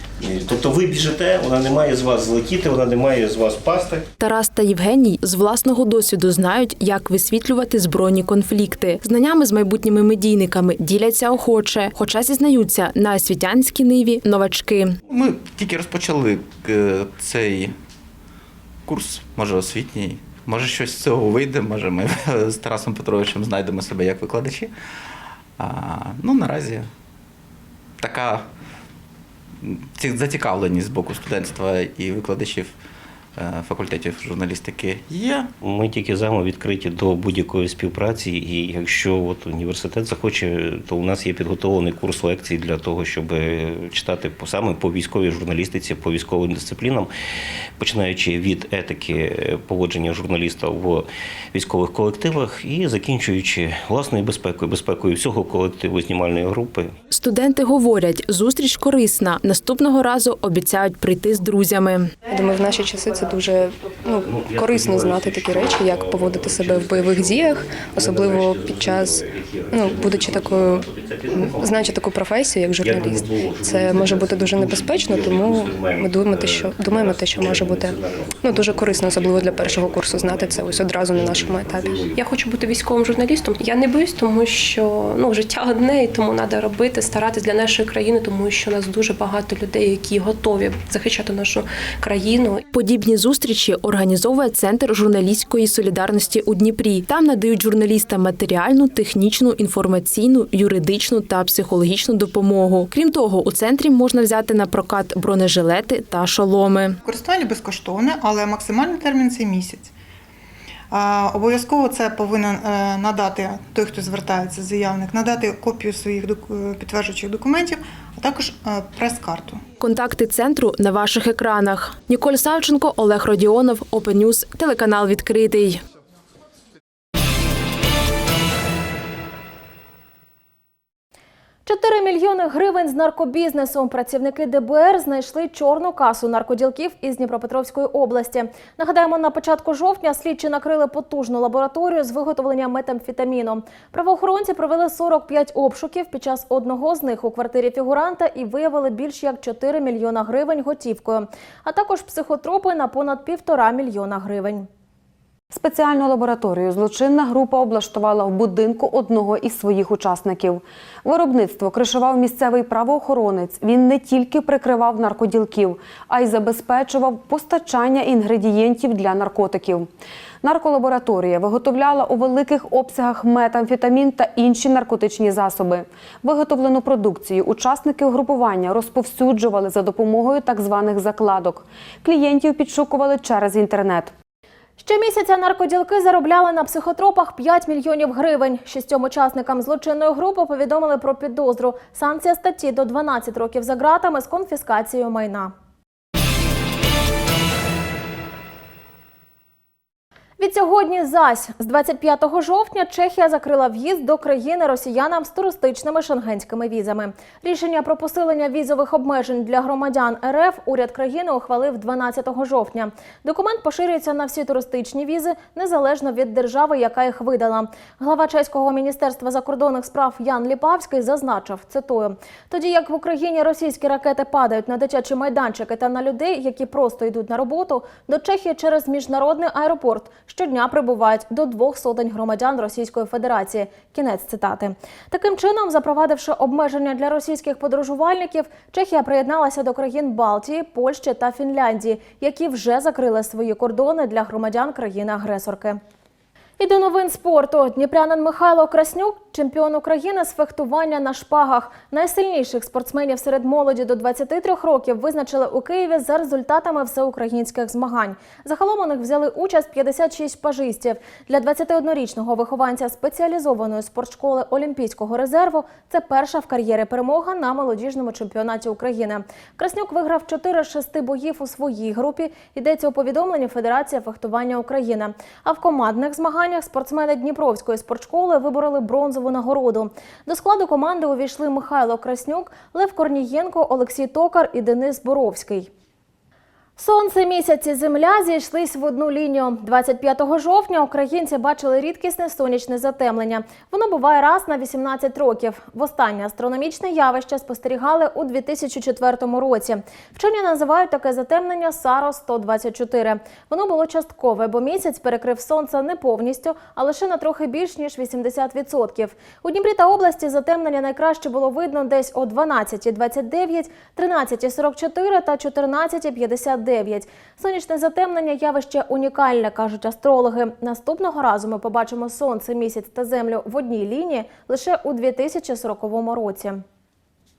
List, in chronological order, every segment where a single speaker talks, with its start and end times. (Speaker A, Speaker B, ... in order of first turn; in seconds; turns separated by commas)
Speaker A: 0.2-4.0, Speaker B: 4.2-15.0, Speaker C: 15.1-17.7, Speaker C: 18.9-24.7, Speaker C: 25.6-26.9, Speaker C: 28.0-28.4, Speaker C: 29.6-32.7, Speaker C: 33.4-35.5, Speaker A: 35.6-47.1, Speaker A: 47.8-56.9, Speaker B: 57.1-62.1, Speaker D: 62.2-92.6, Speaker A: 64.1-82.2, Speaker B: 92.7-107.0, Speaker E: 107.0-109.9, Speaker E: 110.9-119.6, Speaker B: 119.8-125.8, Speaker F: 131.7-154.7, Speaker G: 155.5-169.9, Speaker G: 170.4-184.1, Speaker F: 184.8-195.5, Speaker F: 200.4-245.8, Speaker F: 246.6-285.7, Speaker F: 286.8-326.6